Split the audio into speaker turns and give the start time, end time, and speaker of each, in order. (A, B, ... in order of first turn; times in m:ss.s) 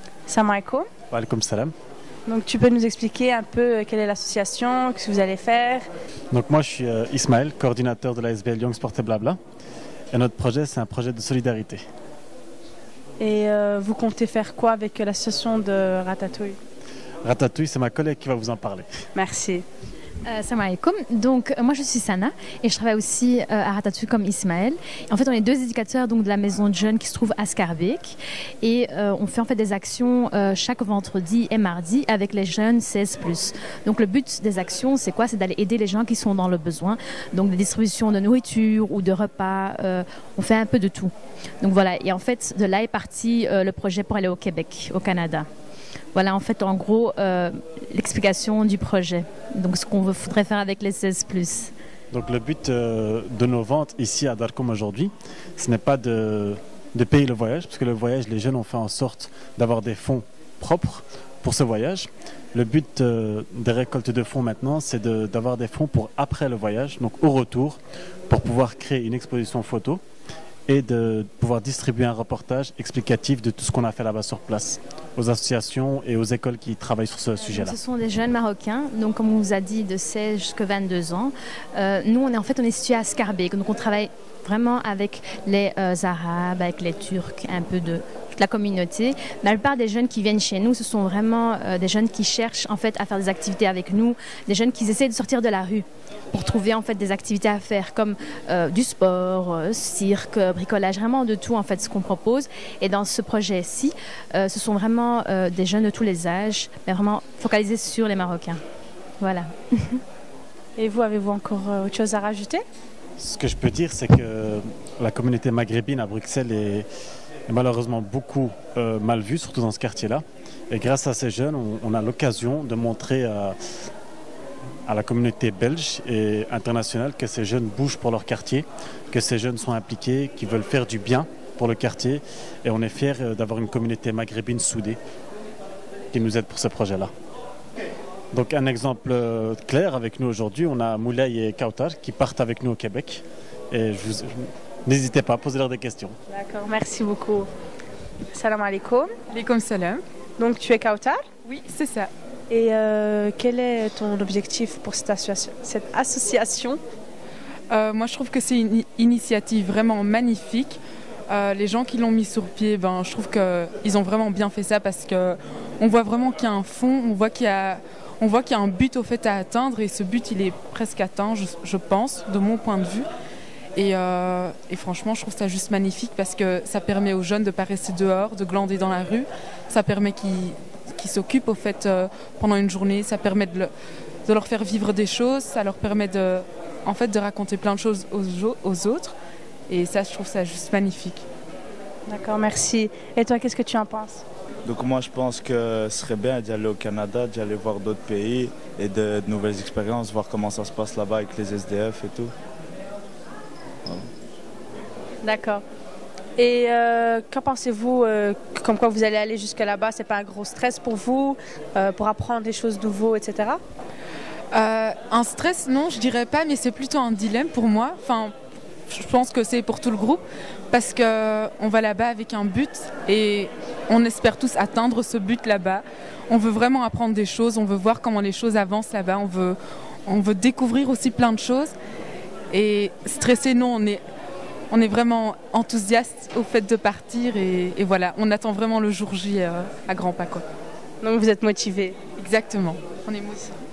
0:00.3-0:00.9 A
0:01.1-0:01.7 B
0:02.2-0:05.9 A
0:06.3-0:09.4 B
0:10.1-0:11.8 B
0:13.2-0:16.6 A
0:17.2-0:18.9 B
0:19.1-0:19.6 A
0:20.2-0:45.5 C
0:46.1-0:51.7 C
0:52.1-1:10.0 B
1:10.7-1:17.8 B
1:17.4-1:48.6 C
1:49.2-1:50.0 C
1:50.8-1:52.6 A
1:53.2-1:56.9 B
1:57.5-2:03.6 B
2:04.8-2:15.0 B
2:16.1-2:17.1 B
2:18.3-2:26.2 B
2:26.3-2:27.5 A
2:28.3-2:29.1 A
2:29.3-2:30.0 D
2:30.4-2:31.3 A
2:31.4-2:32.1 D
2:32.5-2:36.8 A
2:37.7-2:53.1 D
2:53.7-3:03.7 D
3:04.2-3:09.2 D
3:09.7-3:11.2 D
3:12.1-3:14.2 A
3:14.6-3:22.3 E
3:25.2-3:25.6 A
3:26.4-3:33.6 A
3:34.5-3:38.3 D
3:38.9-3:51.7 D
3:52.5-3:54.0 D
3:54.7-4:00.4 D
4:01.0-4:02.0 A
4:02.2-4:03.5 D